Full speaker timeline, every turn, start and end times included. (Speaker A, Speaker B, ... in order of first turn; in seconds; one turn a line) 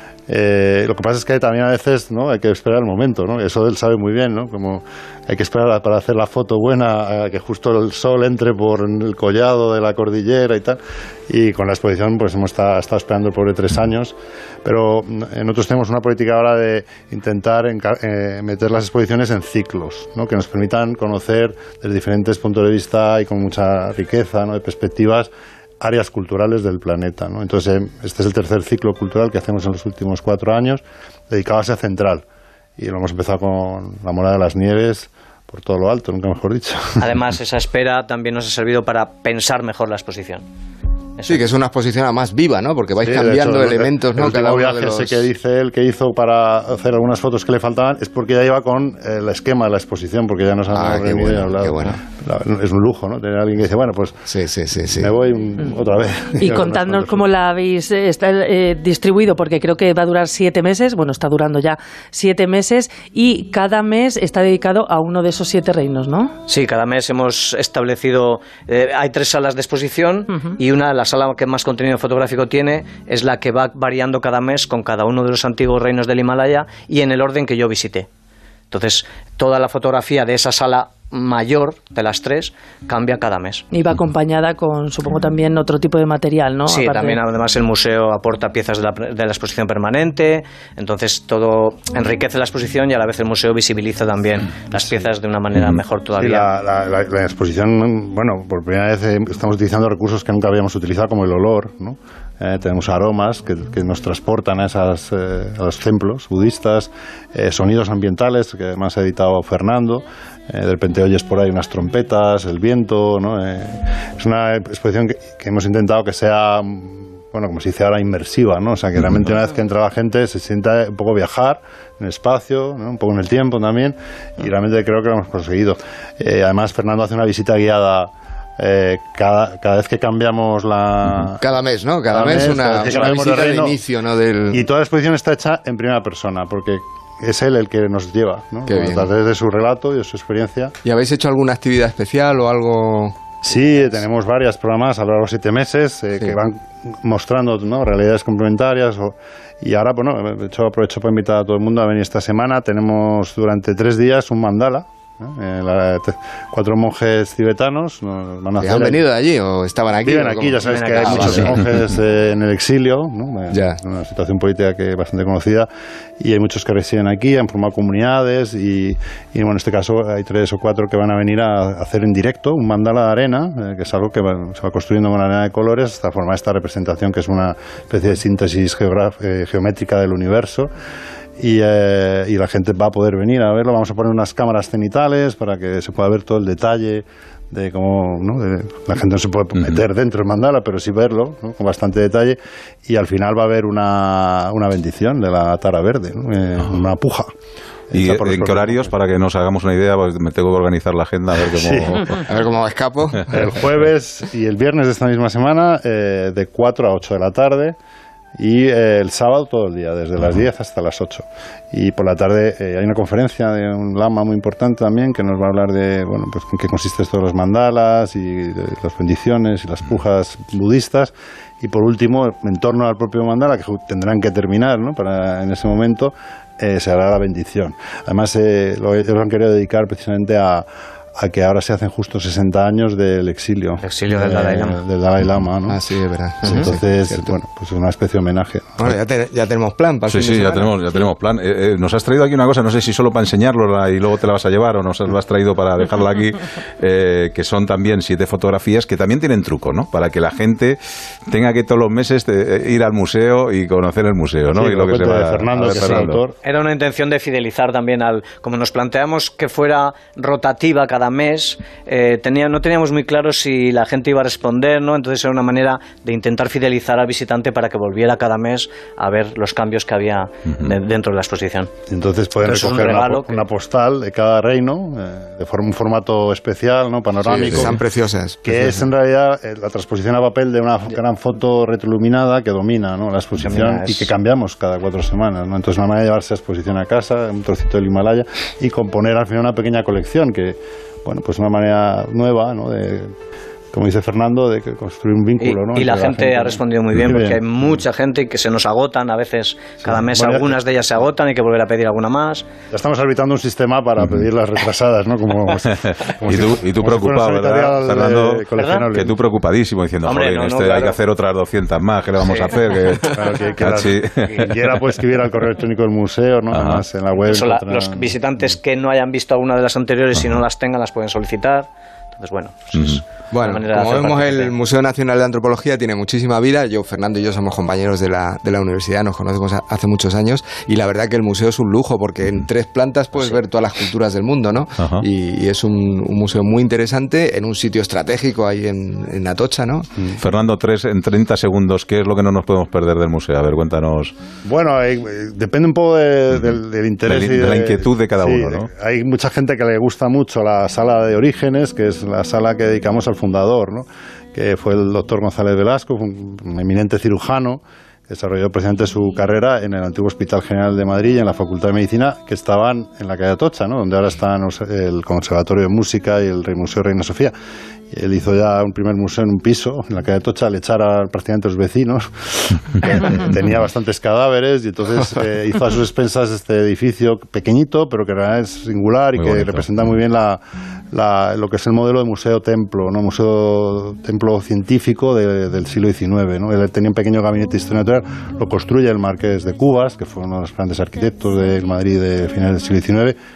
Speaker A: 0.3-32.2
Speaker A: 32.8-37.0
Speaker B: 37.0-40.4
Speaker B: 41.2-41.5
Speaker C: 41.2-45.2
Speaker A: 43.0-54.2
Speaker C: 50.7-52.0
Speaker C: 54.3-55.1
Speaker A: 55.0-57.3
Speaker D: 56.4-66.3
Speaker B: 66.5-78.1
Speaker D: 70.3-70.6
Speaker B: 78.7-83.6
Speaker D: 83.7-87.2
Speaker B: 86.7-96.5
Speaker E: 95.5-95.8
Speaker A: 96.2-131.4
Speaker E: 119.0-119.3
Speaker C: 131.4-134.7
Speaker A: 132.1-133.8
Speaker A: 134.5-140.8
Speaker C: 138.7-139.1
Speaker C: 140.8-143.3
Speaker A: 143.4-159.0
Speaker C: 158.6-161.6
Speaker A: 160.0-165.7
Speaker B: 160.6-161.6
Speaker C: 163.5-163.8
Speaker A: 166.2-180.7
Speaker A: 181.4-197.3
Speaker A: 197.9-198.9
Speaker E: 197.9-202.2
Speaker A: 201.5-202.0
Speaker C: 202.2-203.3
Speaker A: 203.3-207.8
Speaker A: 208.4-235.8
Speaker E: 210.2-210.4
Speaker B: 233.8-234.8
Speaker C: 235.7-237.3
Speaker A: 236.4-238.9
Speaker C: 238.8-240.7
Speaker E: 240.1-250.8
Speaker E: 251.3-256.2
Speaker A: 254.5-256.3
Speaker B: 255.8-271.7
Speaker E: 270.5-270.7
Speaker A: 271.9-277.8
Speaker B: 272.4-273.4
Speaker C: 277.2-278.7
Speaker A: 278.4-293.1
Speaker B: 283.4-284.1
Speaker A: 293.7-297.4
Speaker B: 295.4-302.4
Speaker A: 299.8-300.6
Speaker A: 302.7-309.1
Speaker E: 306.2-314.5
Speaker B: 308.6-308.9
Speaker B: 310.0-311.0
Speaker B: 312.2-312.6
Speaker A: 313.1-318.2
Speaker E: 316.5-316.8
Speaker B: 317.3-324.5
Speaker E: 320.1-320.4
Speaker E: 322.7-323.0
Speaker C: 323.3-339.9
Speaker B: 333.1-333.4
Speaker E: 334.8-335.0
Speaker E: 340.2-344.1
Speaker A: 344.4-367.3
Speaker E: 346.3-348.7
Speaker A: 367.9-393.1
Speaker E: 372.9-373.4
Speaker E: 379.1-379.6